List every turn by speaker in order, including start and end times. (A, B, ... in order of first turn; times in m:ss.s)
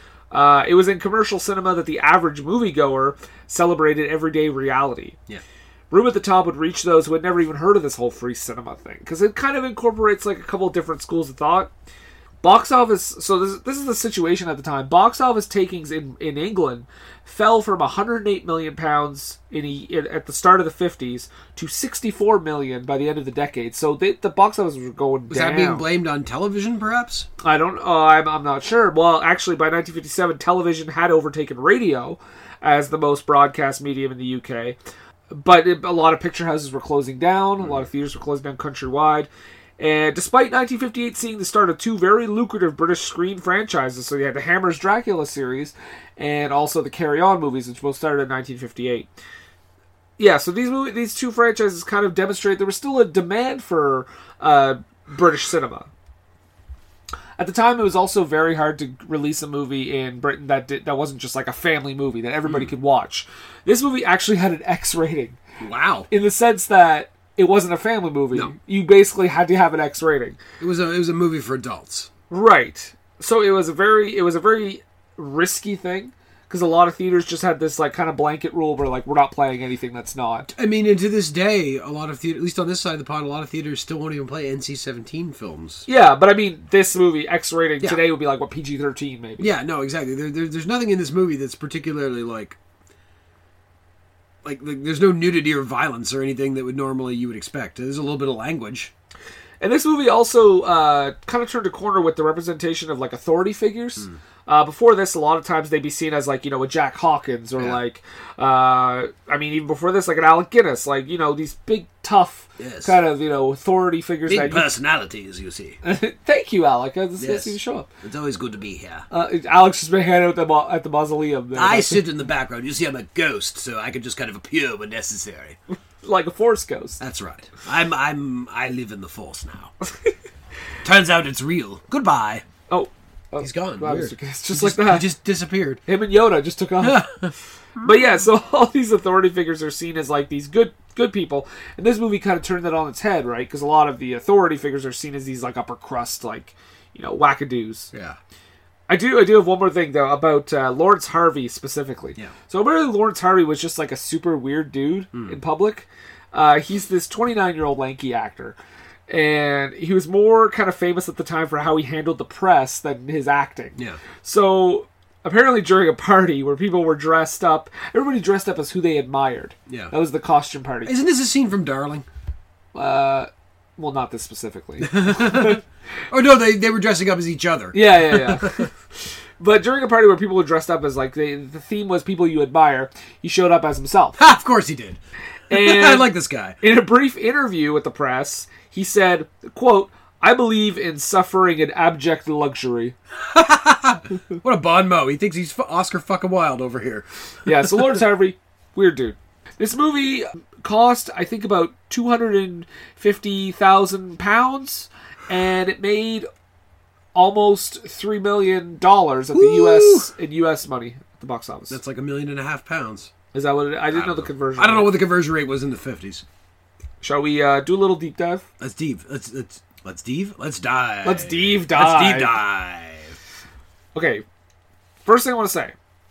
0:00.3-0:05.2 A
0:05.9-0:11.7 A
0:12.4-0:25.8 A
0:25.3-0:27.3 B
0:27.4-0:34.8 A
0:35.3-0:49.1 A
0:50.2-0:55.9 A
0:57.4-1:05.4 A
1:05.6-1:06.1 B
1:06.1-1:10.4 A
1:10.6-1:12.1 B
1:12.3-1:20.5 A
1:20.5-1:25.8 B
1:25.9-1:29.5 A
1:29.4-1:32.6 B
1:34.4-1:38.9 B
1:39.6-1:54.7 A
1:52.6-1:53.0 B
1:54.3-1:55.8 B
1:55.8-1:57.9 A
1:57.2-1:59.0 B
1:59.1-2:02.0 A
2:01.5-2:05.6 B
2:06.0-2:07.0 A
2:07.0-2:09.7 B
2:10.8-2:12.4 B
2:12.7-2:15.1 A
2:13.4-2:15.8 B
2:15.9-2:17.0 A
2:16.8-2:18.0 B
2:17.8-2:27.9 A
2:27.9-2:28.2 B
2:28.9-2:38.6 A
2:39.1-2:51.0 A
2:50.8-2:52.0 B
2:52.7-2:55.6 A
2:54.8-2:58.7 B
2:57.7-3:04.2 A
3:04.2-3:05.0 B
3:05.5-3:06.6 B
3:05.5-3:12.9 A
3:13.3-3:17.1 B
3:17.4-3:26.3 A
3:27.1-3:31.8 A
3:29.3-3:30.1 B
3:31.7-3:33.1 B
3:33.3-3:34.9 A
3:33.9-3:36.2 B
3:37.0-3:38.4 A
3:38.6-3:43.2 B
3:41.0-3:42.4 A
3:43.9-3:44.2 A
3:45.0-3:45.7 A